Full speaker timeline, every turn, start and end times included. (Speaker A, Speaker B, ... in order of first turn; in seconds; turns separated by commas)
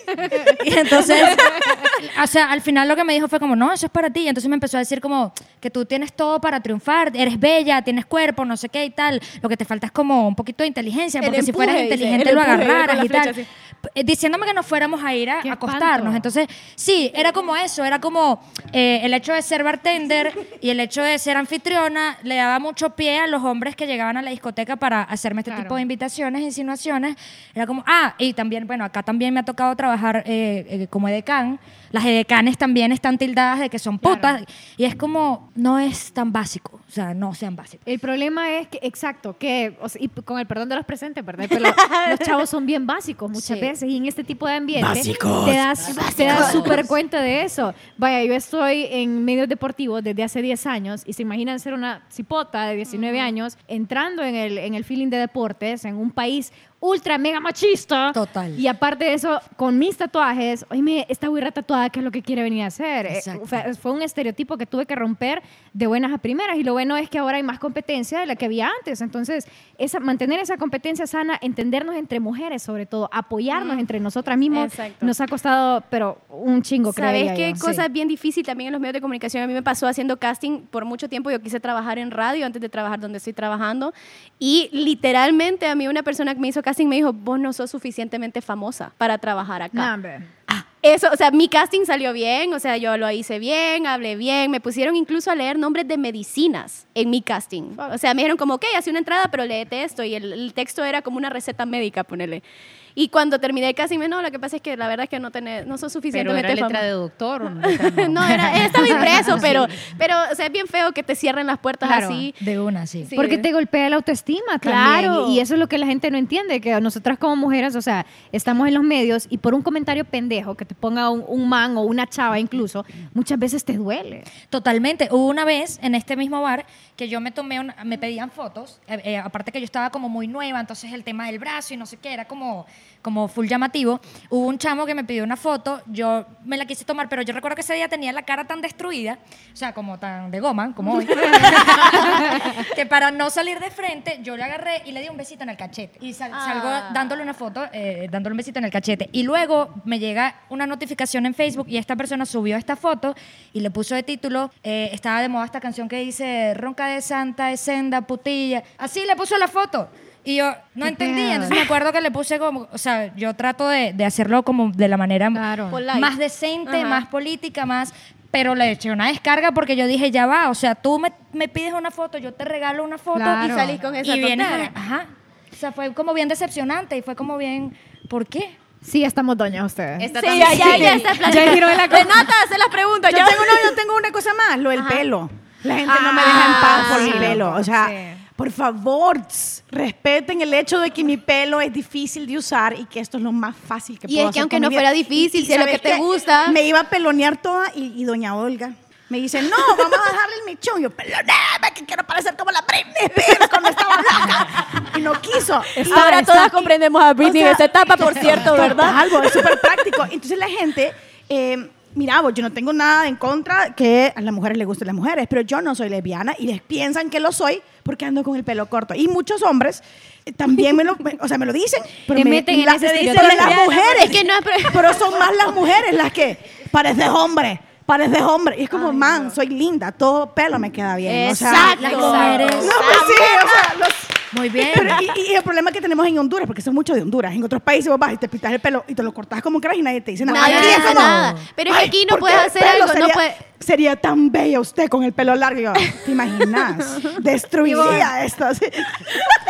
Speaker A: 0.3-37.8, Speaker B: 11.2-13.4, Speaker C: 15.4-16.2, Speaker C: 25.5-25.8, Speaker C: 34.0-34.4, Speaker C: 37.9-77.8, Speaker B: 41.6-42.3, Speaker D: 44.8-46.3, Speaker E: 45.8-46.9, Speaker B: 46.0-46.7, Speaker A: 58.1-58.6, Speaker A: 63.1-63.6, Speaker B: 73.5-73.8, Speaker B: 74.5-75.1, Speaker B: 76.9-89.9, Speaker C: 89.7-90.3, Speaker B: 90.7-102.4, Speaker B: 103.0-106.8, Speaker E: 106.1-109.7, Speaker B: 107.6-112.4, Speaker A: 108.5-108.9, Speaker C: 108.8-109.4, Speaker C: 111.8-112.3, Speaker A: 112.4-113.1, Speaker B: 113.1-113.5, Speaker C: 113.1-124.3, Speaker B: 114.6-115.4, Speaker A: 124.5-178.6, Speaker C: 142.1-142.6, Speaker B: 146.3-147.1, Speaker C: 160.8-161.6, Speaker C: 165.3-165.8, Speaker B: 165.7-166.1, Speaker B: 166.7-167.0, Speaker C: 173.1-173.8, Speaker B: 173.4-174.7, Speaker C: 178.8-182.3, Speaker E: 180.0-181.3, Speaker B: 180.1-183.8, Speaker D: 183.1-206.4, Speaker B: 184.8-185.0, Speaker C: 185.9-188.2, Speaker B: 186.2-187.4, Speaker B: 194.1-196.6, Speaker C: 205.8-206.7, Speaker B: 205.8-209.3, Speaker D: 207.2-249.3, Speaker C: 222.1-224.1, Speaker B: 223.1-225.5, Speaker B: 228.7-229.3, Speaker B: 231.0-233.7, Speaker A: 231.5-232.8, Speaker A: 234.3-235.0, Speaker B: 240.2-243.4, Speaker A: 240.3-241.4, Speaker B: 246.5-248.1